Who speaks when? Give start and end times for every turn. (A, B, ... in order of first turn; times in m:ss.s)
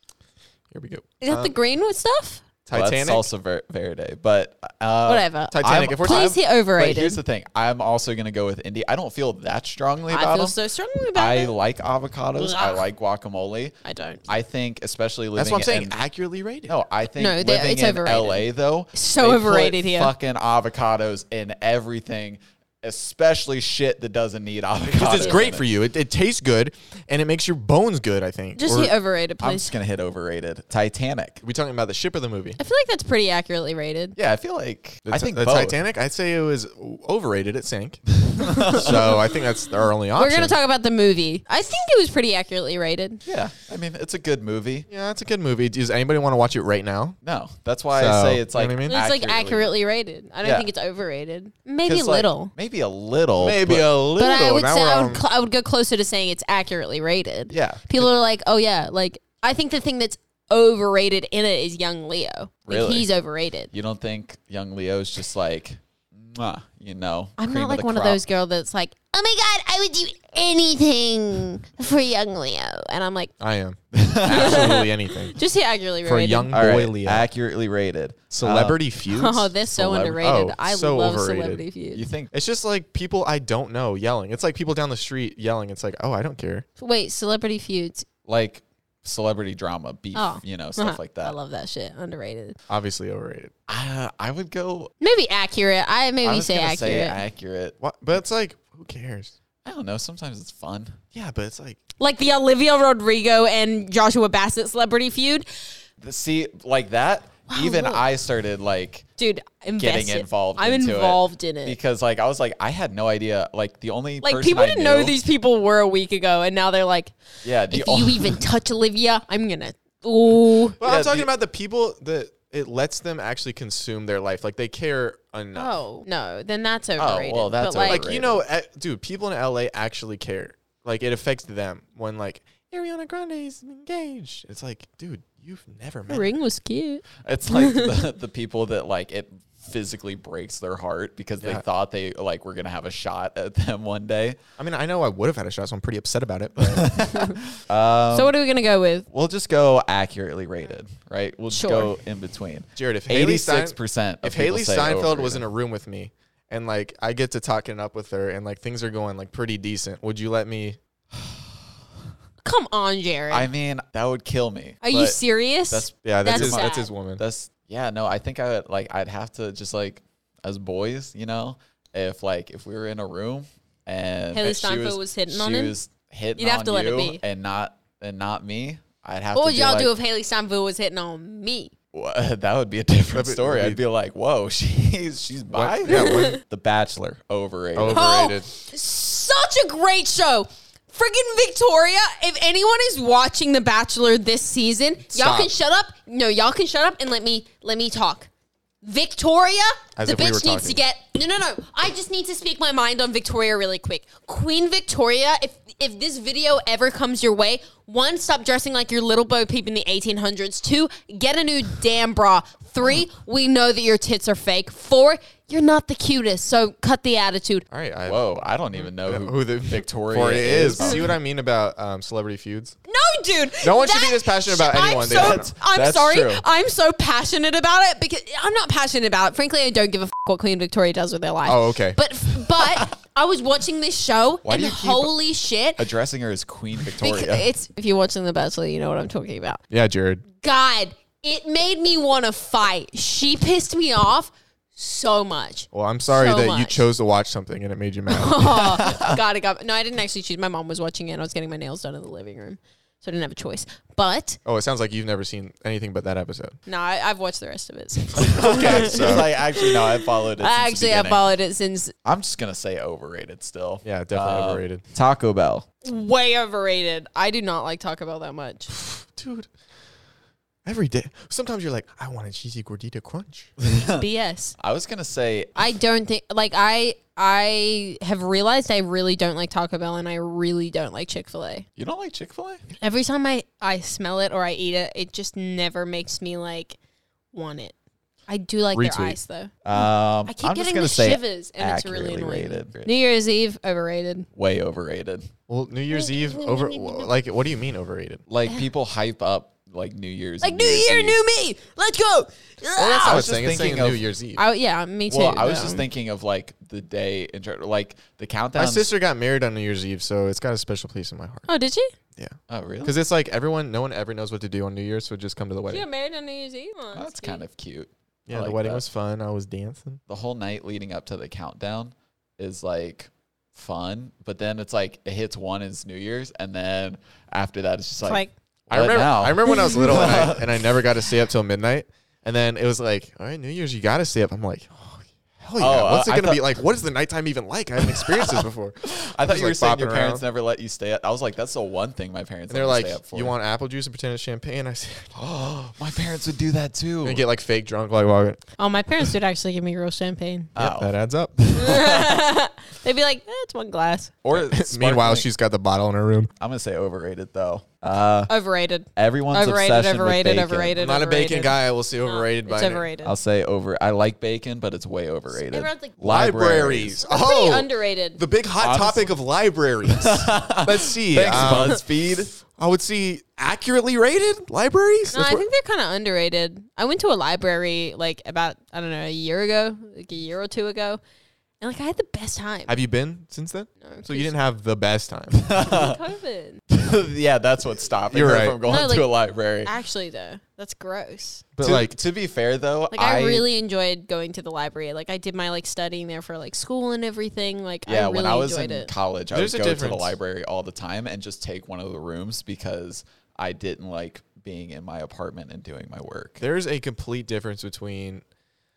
0:00.7-0:01.5 A
0:01.2-0:02.4 B
0:02.6-0:03.3 A
0:02.7-0:10.5 C
0:05.0-0:07.2 B
0:05.5-0:06.3 A
0:10.1-0:11.5 B
0:11.1-0:16.0 C
0:12.4-0:12.8 B
0:13.8-0:14.2 B
0:15.4-0:16.7 A
0:16.7-0:25.6 C
0:17.2-0:20.1 B
0:24.9-0:28.9 A
0:25.1-0:25.4 B
0:28.6-0:29.7 B
0:29.4-0:31.4 C
0:31.4-0:32.6 A
0:32.6-0:34.2 B
0:34.2-0:35.8 C
0:35.0-0:38.0 A
0:38.2-0:39.2 C
0:38.5-0:38.8 B
0:38.7-0:40.6 A
0:40.1-0:43.2 B
0:43.2-0:44.9 C
0:44.9-0:47.2 A
0:47.2-0:49.7 C
0:47.9-0:49.0 A
0:48.9-0:52.5 B
0:51.8-0:53.9 C
0:53.4-0:55.2 A
0:54.2-1:03.7 B
0:57.5-0:57.8 C
1:02.7-1:03.1 C
1:03.7-1:08.2 C
1:07.4-1:13.3 B
1:13.4-1:15.4 A
1:13.9-1:14.8 C
1:14.3-1:16.5 B
1:16.0-1:17.3 A
1:16.5-1:18.8 C
1:18.3-1:19.5 A
1:19.1-1:22.0 B
1:19.7-1:20.4 C
1:20.2-1:21.6 A
1:21.9-1:22.3 C
1:22.3-1:26.6 A
1:26.8-1:28.0 B
1:28.2-1:31.3 C
1:30.1-1:32.6 B
1:32.7-1:33.5 A
1:33.7-1:34.9 C
1:35.0-1:37.2 B
1:36.2-1:37.7 C
1:37.8-1:39.3 A
1:39.6-1:41.0 C
1:41.1-1:41.8 A
1:42.0-1:45.7 B
1:46.0-1:49.1 C
1:47.5-1:48.0 B
1:49.2-1:51.8 B
1:49.8-1:55.2 C
1:54.2-1:57.1 B
1:57.4-1:58.4 C
1:57.7-2:00.8 B
2:00.8-2:05.7 A
2:00.8-2:01.3 C
2:05.5-2:08.0 B
2:07.0-2:08.4 C
2:07.8-2:16.3 A
2:16.1-2:18.0 B
2:17.2-2:24.4 C
2:24.6-2:26.9 A
2:26.6-2:28.3 C
2:28.1-2:29.1 B
2:29.1-2:35.4 C
2:31.5-2:31.9 B
2:32.8-2:40.8 A
2:42.4-2:43.5 B
2:43.3-2:59.9 C
2:44.8-2:46.9 B
2:46.0-2:47.2 A
2:54.3-2:55.7 B
2:56.4-2:57.2 B
2:59.3-3:01.7 B
3:01.9-3:08.1 C
3:03.1-3:03.8 A
3:05.5-3:06.4 A
3:05.9-3:06.4 B
3:07.7-3:08.5 A
3:07.9-3:18.3 B
3:15.1-3:15.5 A
3:18.8-3:37.6 B
3:20.0-3:20.8 A
3:37.7-3:38.2 A
3:38.0-3:41.1 C
3:38.8-3:42.7 A
3:40.8-3:41.0 B
3:42.9-3:55.8 B
3:43.6-3:45.5 A
3:45.1-3:46.4 C
3:51.4-3:52.0 A
3:52.6-3:52.9 C
3:54.4-3:55.2 C
3:55.8-3:57.5 C
3:57.0-3:59.6 B
3:59.7-4:00.2 A
4:00.4-4:06.8 B
4:05.7-4:08.8 A
4:08.1-4:14.4 B
4:08.7-4:09.2 C
4:14.4-4:16.6 A
4:16.6-4:21.9 B
4:18.1-4:19.3 A
4:18.2-4:21.2 C
4:22.0-4:25.6 C
4:23.8-4:24.8 A
4:25.8-4:28.7 B
4:28.7-4:29.5 A
4:30.6-4:33.5 A
4:33.6-4:34.1 C
4:34.0-4:34.5 B
4:34.6-4:35.6 C
4:35.6-4:41.6 B
4:41.8-4:42.6 C
4:42.8-4:46.8 B
4:47.3-4:47.7 B
4:48.3-4:54.3 B
4:48.7-4:49.2 A
4:49.6-4:52.9 C
4:54.4-4:55.3 C
4:55.5-4:58.2 A
4:56.3-4:57.0 B
4:58.3-5:01.2 C
5:00.4-5:03.3 B
5:02.8-5:04.4 A
5:03.0-5:04.0 C
5:04.4-5:05.9 B
5:05.1-5:08.9 C
5:08.6-5:11.5 A
5:11.5-5:11.9 B
5:12.2-5:15.8 A
5:12.5-5:13.0 C
5:15.7-5:17.4 B
5:16.9-5:18.8 C
5:18.3-5:20.0 A
5:20.1-5:30.6 C
5:28.0-5:28.3 B
5:28.7-5:40.2 A
5:29.5-5:29.8 B
5:35.6-5:36.6 C
5:37.9-5:43.3 C
5:42.5-5:45.1 A
5:45.1-5:47.2 C
5:47.0-5:48.4 A
5:48.6-5:50.5 B
5:50.6-5:52.2 C
5:50.6-5:51.3 A
5:51.5-5:54.1 B
5:54.2-5:55.2 C
5:54.3-5:56.3 A
5:56.4-5:58.3 C
5:58.3-6:03.1 B
5:59.0-6:00.7 C
6:00.8-6:02.9 A
6:03.0-6:07.0 C
6:05.3-6:06.0 B
6:06.0-6:11.8 A
6:07.0-6:08.2 B
6:08.6-6:09.1 C
6:09.8-6:12.3 C
6:12.5-6:15.5 A
6:15.1-6:21.0 B
6:21.6-6:22.7 B
6:22.7-6:25.4 A
6:23.8-6:24.3 B
6:25.3-6:26.0 C
6:25.6-6:26.6 B
6:26.7-6:29.7 C
6:28.1-6:28.6 A
6:28.6-6:29.1 B
6:29.6-6:31.4 B
6:31.5-6:32.0 A
6:31.6-6:33.4 C
6:32.9-6:38.9 B
6:37.8-6:46.4 C
6:39.3-6:40.1 A
6:46.4-6:48.2 A